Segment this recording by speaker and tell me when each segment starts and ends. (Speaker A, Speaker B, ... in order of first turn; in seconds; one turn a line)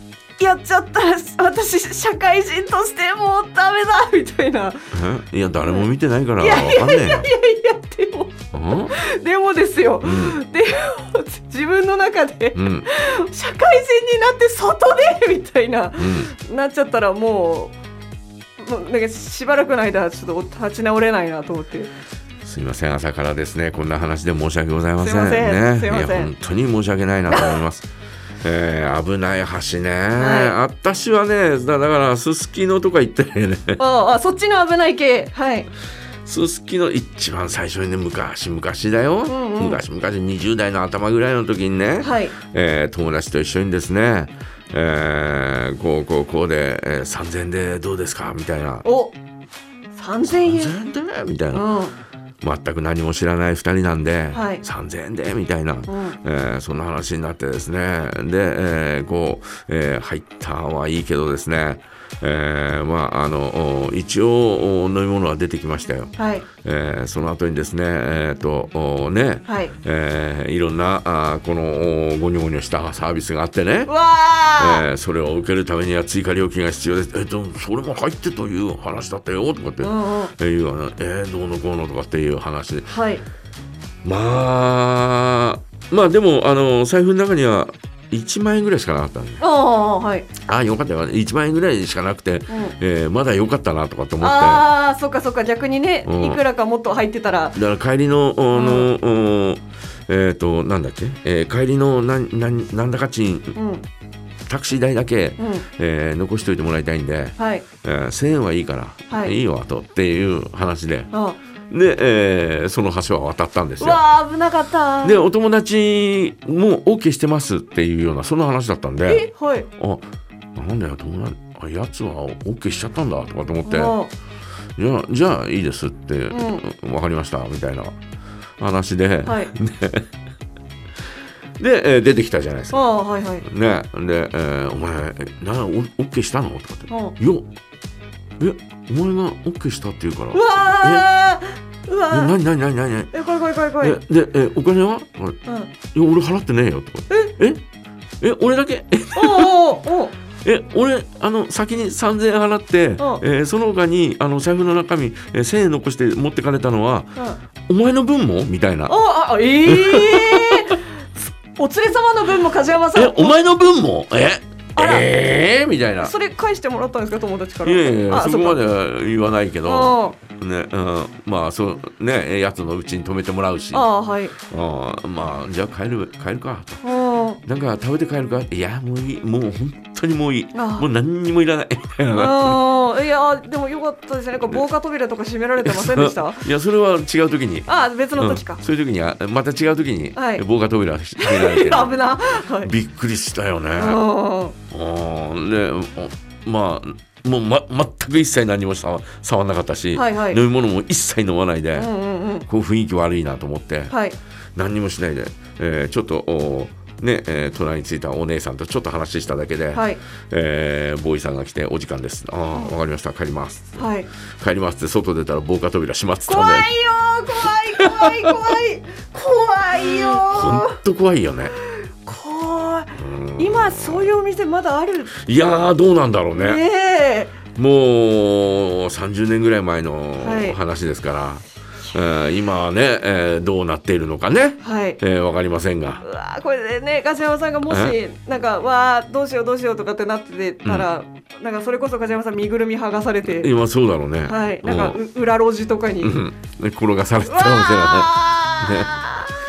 Speaker A: 0.4-4.9
Speaker B: 4.9-7.3
Speaker A: 5.6-17.8
Speaker B: 8.5-8.9
Speaker B: 10.0-10.4
Speaker B: 12.5-12.9
Speaker B: 16.0-16.3
Speaker A: 18.6-21.9
Speaker B: 22.4-27.9
Speaker A: 25.0-26.3
Speaker A: 27.3-27.6
Speaker B: 28.4-33.8
Speaker A: 30.1-30.6
Speaker A: 33.8-35.7
Speaker B: 36.2-48.9
Speaker A: 39.3-39.8
Speaker A: 42.0-42.3
Speaker A: 48.8-49.1
Speaker A: 49.9-50.8
Speaker B: 50.2-51.7
Speaker A: 51.5-51.9
Speaker B: 52.4-73.9
Speaker A: 54.3-54.6
Speaker A: 55.9-56.2
Speaker A: 66.2-66.5
Speaker A: 69.5-69.7
Speaker A: 73.8-74.8
Speaker B: 74.6-82.9
Speaker A: 79.8-80.3
Speaker A: 82.9-83.2
Speaker B: 84.0-89.4
Speaker A: 89.4-90.3
Speaker B: 90.4-94.7
Speaker A: 92.5-92.8
Speaker A: 94.2-97.6
Speaker B: 96.0-96.4
Speaker B: 97.5-103.6
Speaker A: 98.5-98.9
Speaker A: 103.5-103.8
Speaker B: 104.5-111.1
Speaker A: 105.4-105.7
Speaker A: 107.4-107.7
Speaker A: 109.1-109.3
Speaker A: 111.1-111.4
Speaker B: 111.7-114.0
Speaker A: 113.8-115.2
Speaker B: 115.0-120.0
Speaker A: 119.1-119.7
Speaker B: 120.5-123.9
Speaker A: 123.6-124.1
Speaker B: 124.8-127.9
Speaker A: 126.3-126.6
Speaker B: 128.6-130.1
Speaker A: 129.2-129.5
Speaker B: 131.6-132.8
Speaker A: 132.7-133.4
Speaker B: 133.4-137.4
Speaker A: 136.9-137.2
Speaker B: 138.4-141.1
Speaker A: 140.3-142.4
Speaker B: 142.1-143.1
Speaker A: 143.1-144.0
Speaker B: 143.8-147.6
Speaker A: 145.4-145.7
Speaker A: 147.1-147.3
Speaker B: 148.2-149.5
Speaker A: 149.1-150.1
Speaker B: 150.4-157.1
Speaker B: 157.7-158.9
Speaker A: 158.8-160.9
Speaker B: 159.7-160.7
Speaker A: 161.5-163.4
Speaker B: 162.9-166.1
Speaker A: 164.8-165.1
Speaker A: 166.0-168.6
Speaker B: 167.6-173.8
Speaker A: 169.6-170.2
Speaker A: 173.7-174.3
Speaker B: 174.4-176.8
Speaker A: 176.8-177.4
Speaker B: 177.4-182.6
Speaker A: 180.5-180.9
Speaker A: 182.1-186.4
Speaker B: 185.6-194.0
Speaker A: 187.7-188.6
Speaker A: 190.1-190.4
Speaker A: 191.2-192.7
Speaker A: 193.7-194.6
Speaker B: 194.7-201.9
Speaker A: 199.9-200.4
Speaker A: 201.7-202.5
Speaker B: 202.4-203.9
Speaker A: 203.9-204.2
Speaker B: 204.6-216.7
Speaker A: 209.7-210.0
Speaker A: 213.8-214.1
Speaker A: 216.3-220.8
Speaker B: 217.7-218.6
Speaker B: 219.8-221.5
Speaker A: 221.6-225.1
Speaker B: 222.9-224.1
Speaker B: 225.1-226.6
Speaker A: 226.3-227.4
Speaker B: 227.5-236.0
Speaker A: 230.2-230.6
Speaker A: 234.6-235.0
Speaker A: 236.0-243.5
Speaker B: 237.7-237.9
Speaker B: 243.2-245.0
Speaker A: 244.2-246.2
Speaker B: 246.0-248.9
Speaker A: 247.2-249.3